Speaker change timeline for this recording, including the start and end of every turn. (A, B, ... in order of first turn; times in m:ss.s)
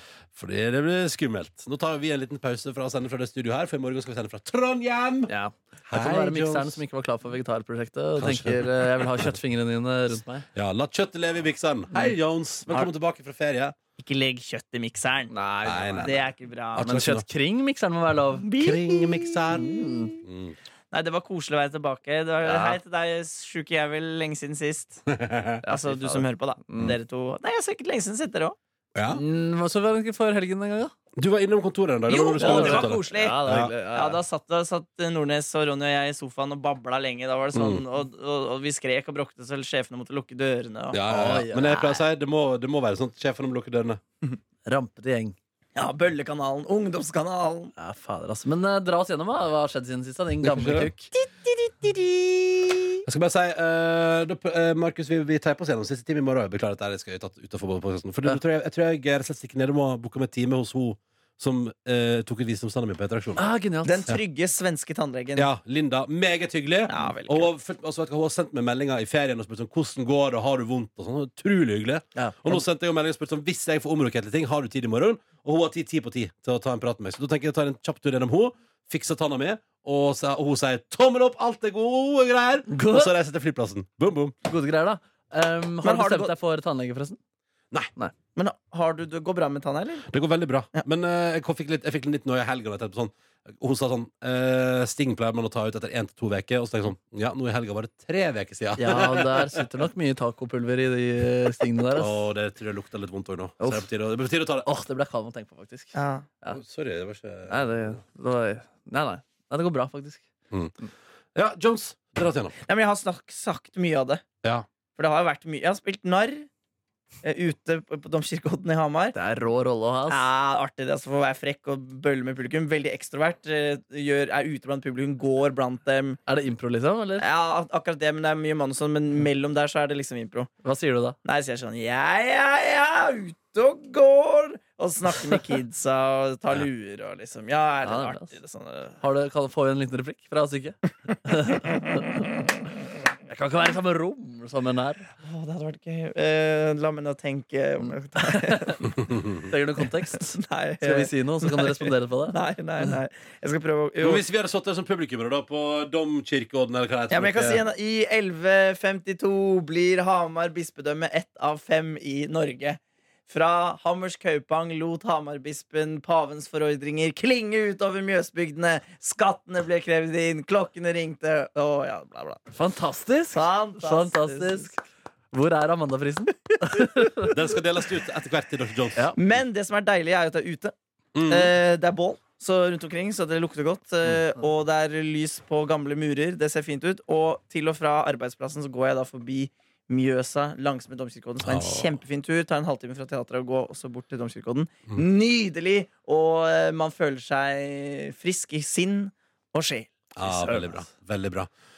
0:00.3-0:05.3 A
0:05.3-0:10.4 B
0:05.9-0:06.8 A
0:08.2-0:09.3 A
0:10.5-0:13.7 A
0:14.0-0:15.3 C
0:15.3-0:16.2 B
0:15.6-0:16.2 A
0:16.0-0:16.9 C
0:16.7-0:17.2 A
0:16.8-0:18.5 B
0:18.4-0:20.1 C
0:18.6-0:19.7 A
0:19.5-0:20.1 B
0:20.2-0:20.5 A
0:20.9-0:25.0 C
0:22.4-0:22.8 B
0:25.1-0:25.6 A
0:25.6-0:26.9 B
0:25.7-0:28.6 C
0:28.9-0:29.2 A
0:29.1-0:30.9 B
0:31.2-0:33.7 A
0:32.1-0:41.0 C
0:32.3-0:34.2 B
0:37.5-0:37.8 A
0:40.9-0:44.0 A
0:41.0-0:42.0 B
0:44.6-0:45.4 B
0:45.8-0:47.7 C
0:47.8-0:51.1 B
0:50.4-0:50.9 A
0:51.1-0:53.0 C
0:53.0-1:03.4 A
1:03.4-1:04.1 B
1:03.8-1:05.5 C
1:05.3-1:24.3 A
1:06.9-1:07.5 C
1:12.1-1:12.6 B
1:22.7-1:23.1 B
1:24.4-1:27.2 B
1:25.8-1:26.3 C
1:28.4-1:30.1 C
1:30.1-1:39.6 A
1:38.8-1:42.2 B
1:41.9-1:44.7 A
1:43.6-1:43.9 B
1:44.6-1:46.6 B
1:45.9-1:46.2 C
1:46.5-1:47.9 A
1:47.5-1:50.2 B
1:51.3-1:52.5 A
1:52.6-1:54.2 C
1:55.0-1:56.5 C
1:57.2-1:59.2 C
1:59.1-2:00.2 B
2:00.1-2:06.2 C
2:06.3-2:07.2 B
2:07.2-2:10.5 C
2:10.6-2:11.2 B
2:11.2-2:19.0 C
2:17.8-2:18.3 B
2:19.0-2:22.3 B
2:23.3-2:25.1 B
2:25.2-2:28.9 C
2:27.8-2:32.9 B
2:29.1-2:29.3 A
2:29.8-2:34.2 C
2:34.0-2:37.6 A
2:37.1-2:52.4 C
2:52.5-2:57.4 B
2:53.3-2:54.7 C
2:57.3-2:59.4 A
2:59.2-3:00.7 C
3:01.1-3:01.5 A
3:01.2-3:20.0 C
3:11.4-3:12.0 A
3:20.1-3:21.5 A
3:20.2-3:20.8 B